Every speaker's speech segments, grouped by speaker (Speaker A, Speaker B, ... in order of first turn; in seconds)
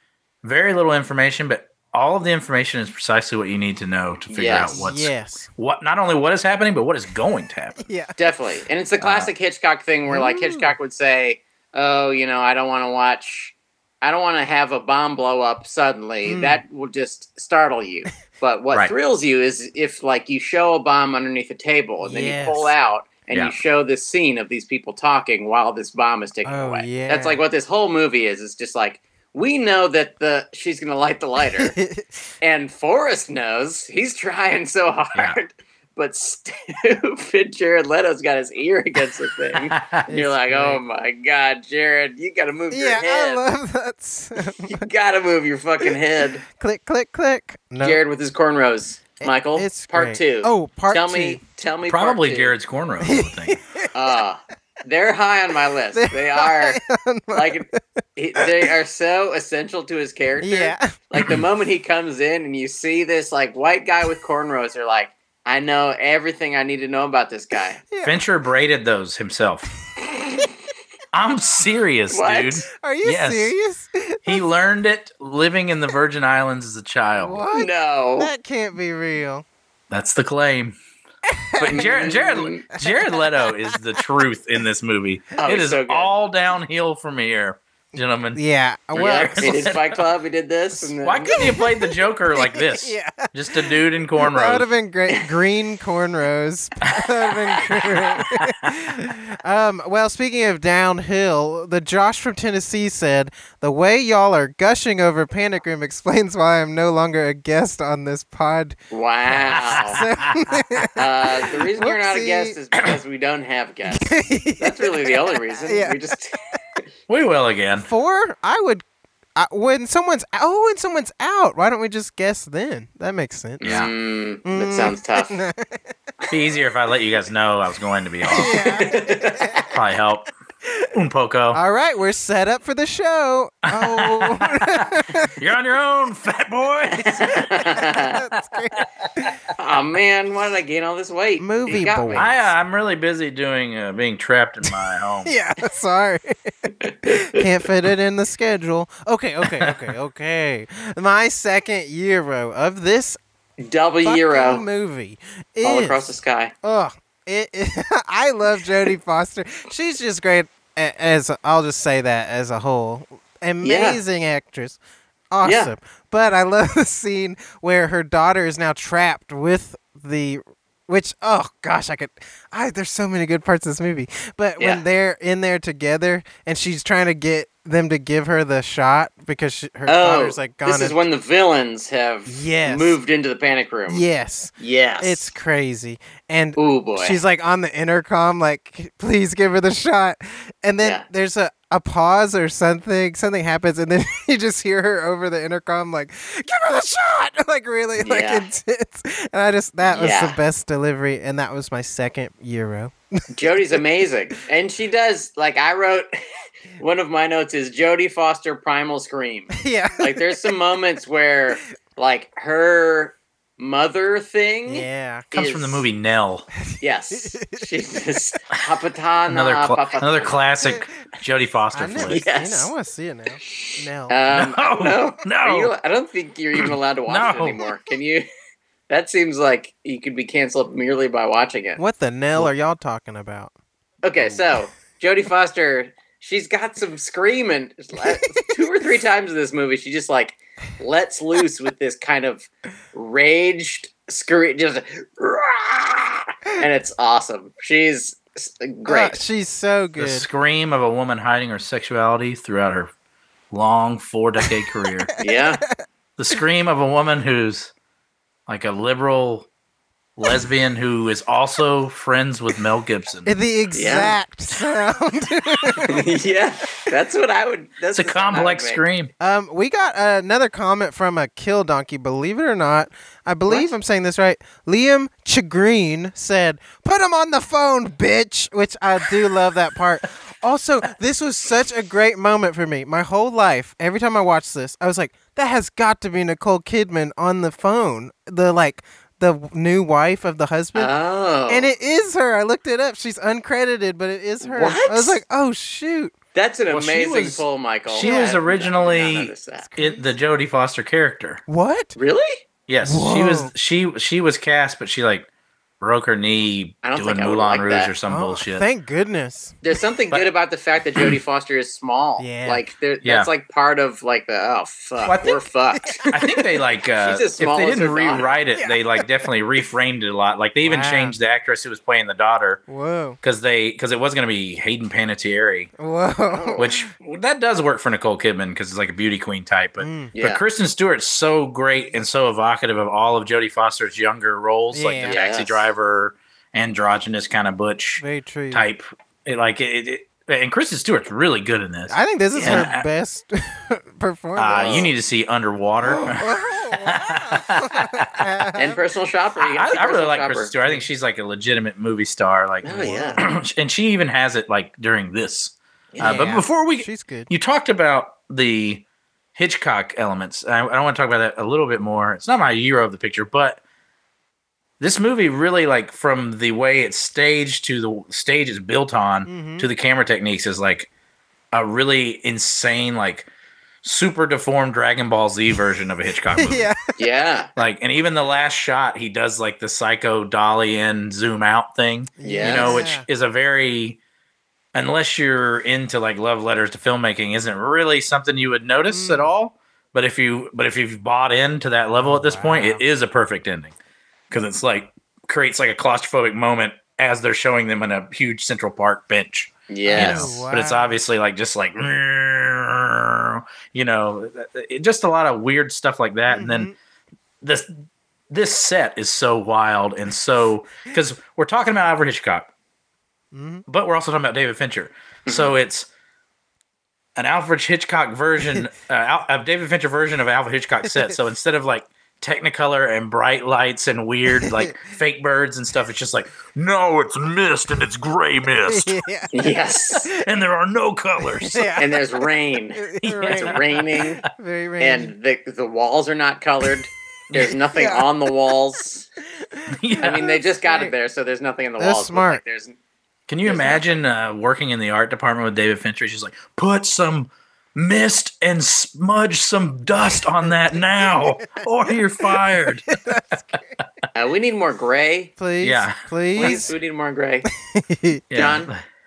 Speaker A: 0.4-7.8, 9.0-9.3, 39.7-40.1, 51.9-53.6, 68.0-69.7, 71.1-73.5, 74.2-77.4, 79.9-80.8, 81.6-88.4, 89.0-90.0, 91.0-94.7, 96.8-98.7, 109.5-110.9, 117.1-117.9, 123.6-123.9, 126.3-129.0, 129.7-130.3, 130.9-131.6, 133.7-137.4, 142.2-145.3, 149.4-149.8, 215.3-216.5, 219.3-222.2, 224.3-225.7, 226.6-227.6, 250.0-252.9, 253.5-255.1, 256.2-257.7, 258.5-259.5, 260.2-263.3, 267.9-269.1, 296.7-301.4, 302.7-305.3, 305.8-308.6, 313.0-313.3, 315.0-315.4, 316.1-322.6, 323.2-325.7, 326.6-342.8, 344.4-348.3, 349.4-358.8, 359.3-363.6, 364.8-370.9, 371.5-373.3, 373.8-376.7, 377.6-384.0, 384.7-393.7, 394.3-406.7, 407.4-412.5, 413.7-415.9, 417.1-429.0, 430.1-431.8, 433.0-433.9, 439.7-440.4, 443.3-452.9, 455.6-456.6, 458.3-458.8
Speaker B: 4.3-4.8, 8.2-31.8, 32.4-43.4, 44.6-46.4, 47.8-52.5, 53.9-56.8, 57.3-67.8, 70.0-70.5, 72.1-72.6, 77.5-78.3, 81.6-82.7, 85.4-86.1, 88.9-91.4, 108.9-110.0, 111.0-116.4, 123.6-125.4, 128.4-129.7, 136.9-138.2, 139.6-142.3, 146.8-147.4, 153.6-154.6, 155.6-156.5, 163.6-164.0, 165.4-165.7, 179.8-184.0, 184.6-185.3, 186.6-187.2, 198.0-198.5, 199.8-200.4, 203.3-206.1, 206.8-215.8, 216.8-220.4, 222.1-222.7, 223.4-228.2, 228.9-231.8, 234.0-249.2, 255.2-255.6, 263.7-264.1, 265.8-268.8, 290.7-291.7, 294.4-295.2, 296.3-299.6, 301.9-302.4, 306.8-307.9, 309.6-316.1, 317.0-318.4, 326.3-326.7, 330.1-330.4, 335.0-335.6, 342.4-342.7, 344.5-344.9, 348.5-350.5, 352.6-353.2, 355.9-356.3, 377.0-377.5, 382.2-382.8, 399.7-400.4, 415.2-415.6, 429.3-430.1, 431.8-434.2, 434.8-439.1, 440.0-442.8, 443.4-443.9, 454.1-455.3, 456.3-457.5, 458.3-458.7
Speaker C: 4.7-5.5, 7.8-8.2, 10.1-10.7, 16.2-16.6, 22.0-22.7, 26.4-27.4, 31.6-32.1, 40.1-40.8, 42.7-44.9, 46.4-48.0, 49.2-51.4, 53.0-53.9, 55.9-57.8, 58.4-58.7, 60.4-60.9, 67.9-68.2, 72.7-74.5, 77.2-79.4, 81.3-82.2, 82.7-84.0, 88.3-89.6, 90.8-108.8, 109.4-112.6, 113.9-116.0, 117.8-118.8, 119.3-123.7, 124.4-125.8, 128.2-129.7, 131.5-135.3, 137.4-139.3, 141.4-142.5, 145.2-146.5, 147.0-153.2, 154.0-156.1, 156.6-164.8, 165.3-181.0, 182.3-183.0, 183.9-202.9, 209.5-210.3, 214.7-215.3, 216.7-217.7, 220.6-220.9, 221.7-224.2, 231.8-233.5, 238.0-238.6, 248.8-250.3, 263.2-266.1, 269.2-290.9, 291.5-296.1, 298.0-298.3, 299.6-300.1, 301.5-301.9, 302.8-303.5, 308.1-309.6, 312.2-312.6, 315.8-316.4, 318.5-319.0, 320.6-321.2, 322.7-323.2, 325.8-326.8, 329.8-330.1, 334.7-335.2, 338.0-338.6, 341.9-344.9, 345.8-348.8, 352.7-353.2, 356.0-357.3, 369.2-369.7, 376.3-376.9, 382.2-383.1, 388.9-389.3, 392.0-392.8, 399.8-401.0, 406.3-406.7, 413.3-413.6, 420.9-421.2, 424.3-424.7, 428.6-429.5, 431.2-435.1, 437.6-438.1, 439.4-440.9, 441.8-442.4, 450.4-453.5, 455.4-456.7, 457.6-458.2